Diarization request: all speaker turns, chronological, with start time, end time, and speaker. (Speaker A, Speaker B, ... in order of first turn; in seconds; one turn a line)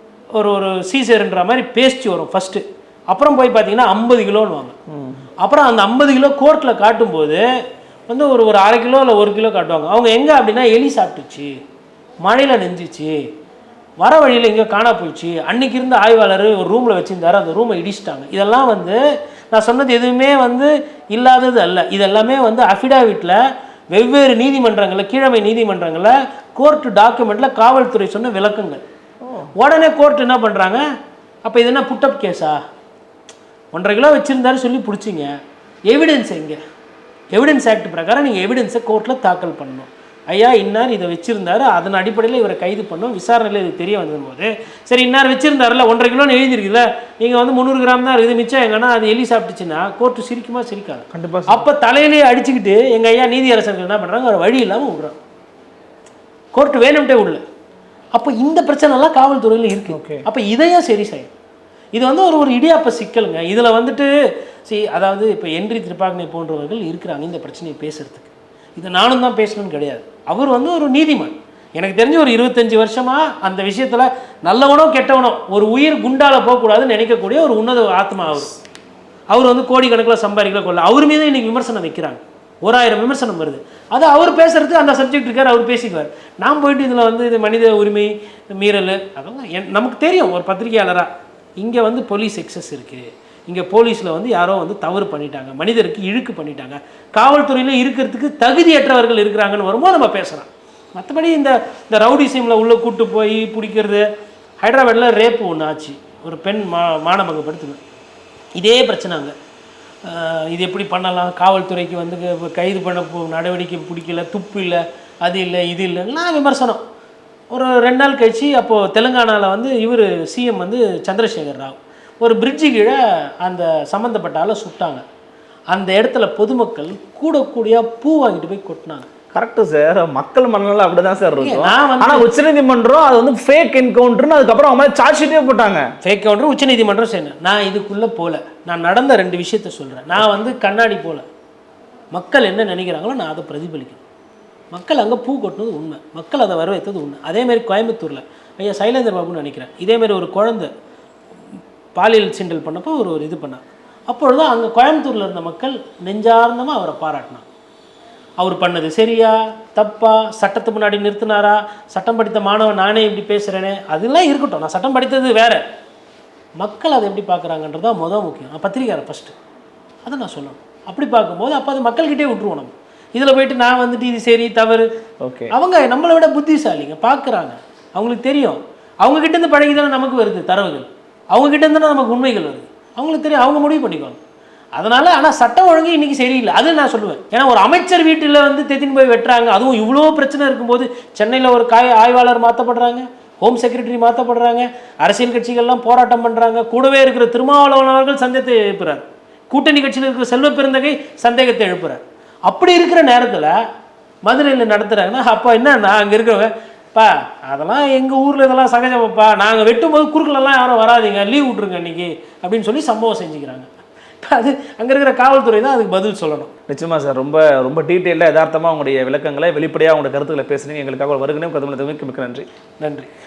Speaker A: 0.3-4.7
Speaker B: 4.9-5.2
Speaker A: 5.4-7.4
Speaker A: 8.1-11.5
Speaker A: 12.2-13.2
Speaker A: 14.0-19.0
Speaker A: 19.5-23.4
Speaker A: 23.9-28.8
Speaker B: 29.2-29.5
Speaker A: 29.6-30.8
Speaker A: 31.4-32.6
Speaker A: 33.7-35.3
Speaker A: 35.9-36.6
Speaker A: 37.3-55.1
Speaker B: 51.1-51.7
Speaker A: 56.5-57.4
Speaker A: 58.1-61.3
Speaker B: 59.9-60.2
Speaker A: 61.9-64.1
Speaker A: 64.7-78.5
Speaker A: 79.3-91.1
Speaker A: 91.6-104.0
Speaker A: 104.6-107.8
Speaker A: 108.6-109.3
Speaker A: 110.0-116.8
Speaker A: 117.5-125.0
Speaker A: 125.7-129.1
Speaker B: 129.3-135.8
Speaker A: 131.4-132.3
Speaker A: 136.0-141.2
Speaker A: 142.1-144.0
Speaker A: 144.7-150.7
Speaker A: 151.9-157.4
Speaker A: 158.4-165.6
Speaker A: 166.6-169.3
Speaker A: 170.0-174.8
Speaker B: 175.2-175.5
Speaker A: 175.5-184.2
Speaker A: 184.8-203.6
Speaker A: 204.2-213.7
Speaker A: 214.2-216.5
Speaker B: 216.7-222.4
Speaker A: 222.8-223.1